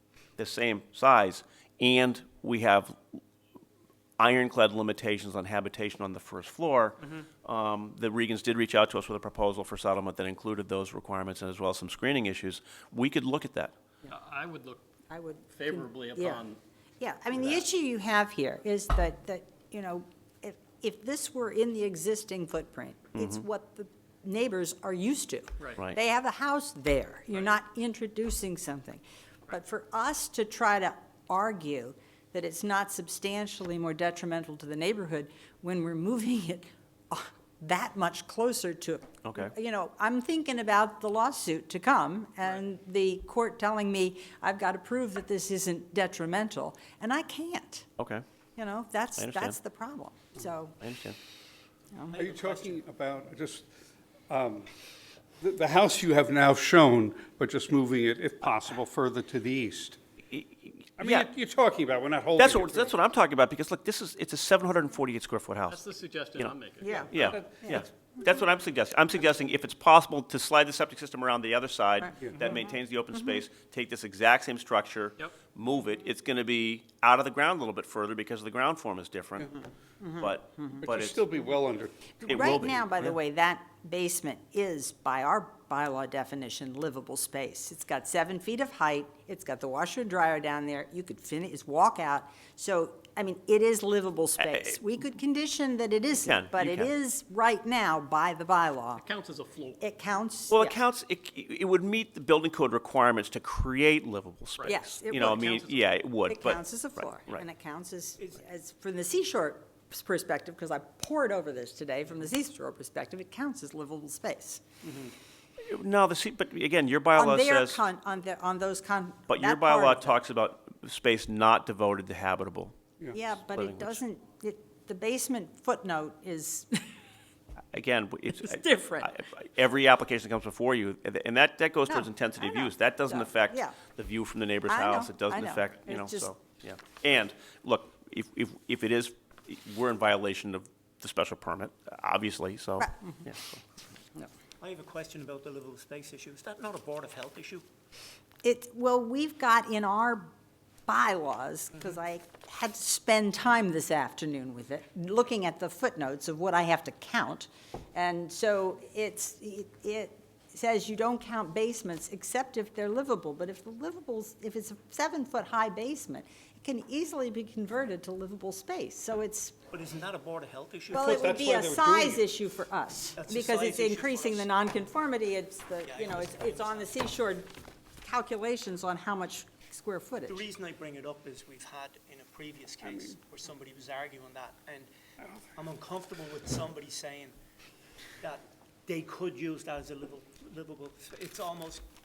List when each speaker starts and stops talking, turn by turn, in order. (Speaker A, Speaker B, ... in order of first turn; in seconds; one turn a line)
Speaker A: 0.4-3.0
Speaker A: 4.2-13.7
Speaker B: 14.1-14.8
Speaker C: 15.1-16.5
Speaker B: 15.5-16.6
Speaker C: 17.0-47.9
Speaker A: 23.1-23.4
Speaker A: 39.2-39.5
Speaker A: 48.0-48.2
Speaker C: 48.6-50.8
Speaker A: 49.2-49.6
Speaker A: 50.8-51.2
Speaker C: 51.9-52.2
Speaker D: 52.2-53.7
Speaker E: 52.2-52.8
Speaker D: 54.3-54.7
Speaker D: 55.4-60.0
Speaker A: 60.3-61.3
Speaker D: 61.0-62.9
Speaker A: 62.4-65.8
Speaker B: 65.7-67.3
Speaker C: 66.8-67.1
Speaker A: 67.1-79.5
Speaker C: 72.0-72.6
Speaker C: 73.2-73.4
Speaker C: 80.0-80.7
Speaker A: 80.2-81.2
Speaker D: 80.8-82.5
Speaker C: 82.2-99.0
Speaker A: 82.3-82.8
Speaker A: 94.5-94.7
Speaker A: 96.2-96.9
Speaker B: 99.0-99.8
Speaker C: 99.8-100.8
Speaker A: 100.5-107.5
Speaker B: 104.6-105.8
Speaker C: 104.7-105.7
Speaker C: 106.2-114.6
Speaker A: 115.6-117.8
Speaker C: 117.2-120.2
Speaker A: 119.3-122.8
Speaker C: 123.1-127.0
Speaker A: 123.3-124.0
Speaker A: 127.7-143.6
Speaker C: 128.3-129.1
Speaker C: 131.9-133.8
Speaker C: 134.7-136.3
Speaker C: 142.8-143.2
Speaker E: 144.6-147.7
Speaker C: 148.4-150.3
Speaker C: 150.9-169.6
Speaker E: 169.7-172.2
Speaker C: 170.9-177.5
Speaker D: 171.2-172.0
Speaker E: 173.2-174.5
Speaker E: 175.8-176.9
Speaker C: 178.0-180.4
Speaker E: 180.3-184.9
Speaker E: 185.6-187.3
Speaker E: 188.2-191.8